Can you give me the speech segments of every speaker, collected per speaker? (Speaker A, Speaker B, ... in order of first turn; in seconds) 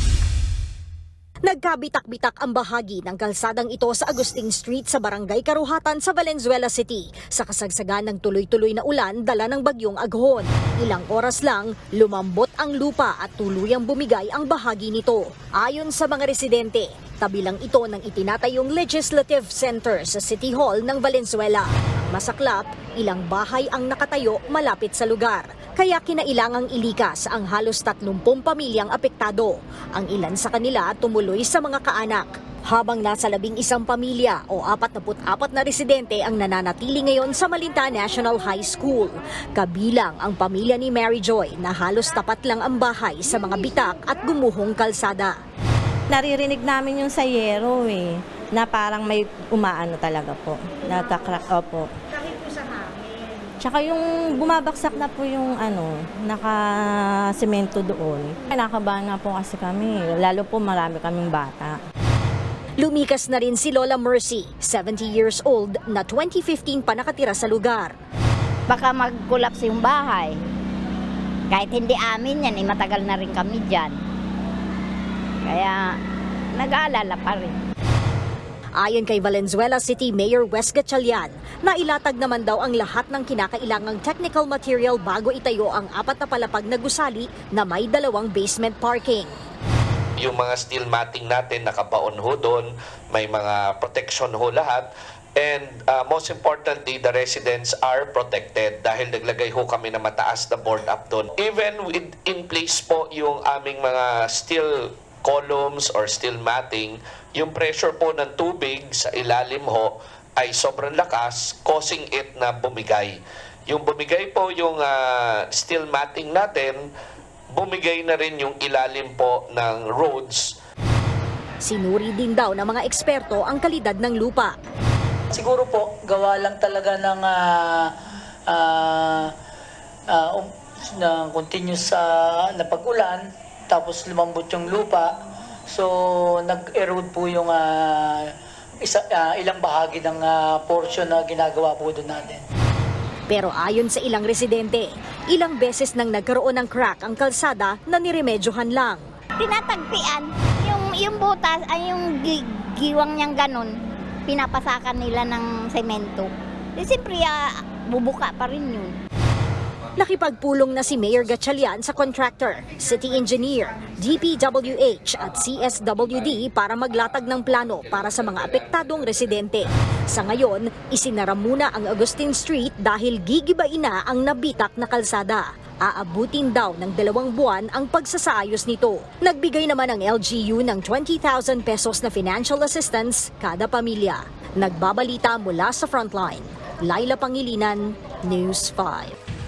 Speaker A: 1.5-45.4, 62.8-67.9, 78.8-89.4, 121.6-124.5, 143.3-149.0, 160.0-189.2
Speaker B: 46.1-51.9, 53.6-61.8
Speaker C: 68.7-70.3, 71.5-74.0, 75.5-75.9, 76.6-77.5, 149.4-153.7, 154.3-158.9
Speaker D: 90.2-116.8, 117.5-120.5
Speaker E: 125.3-127.9, 128.5-129.3, 130.1-135.1, 135.7-138.3, 138.8-142.4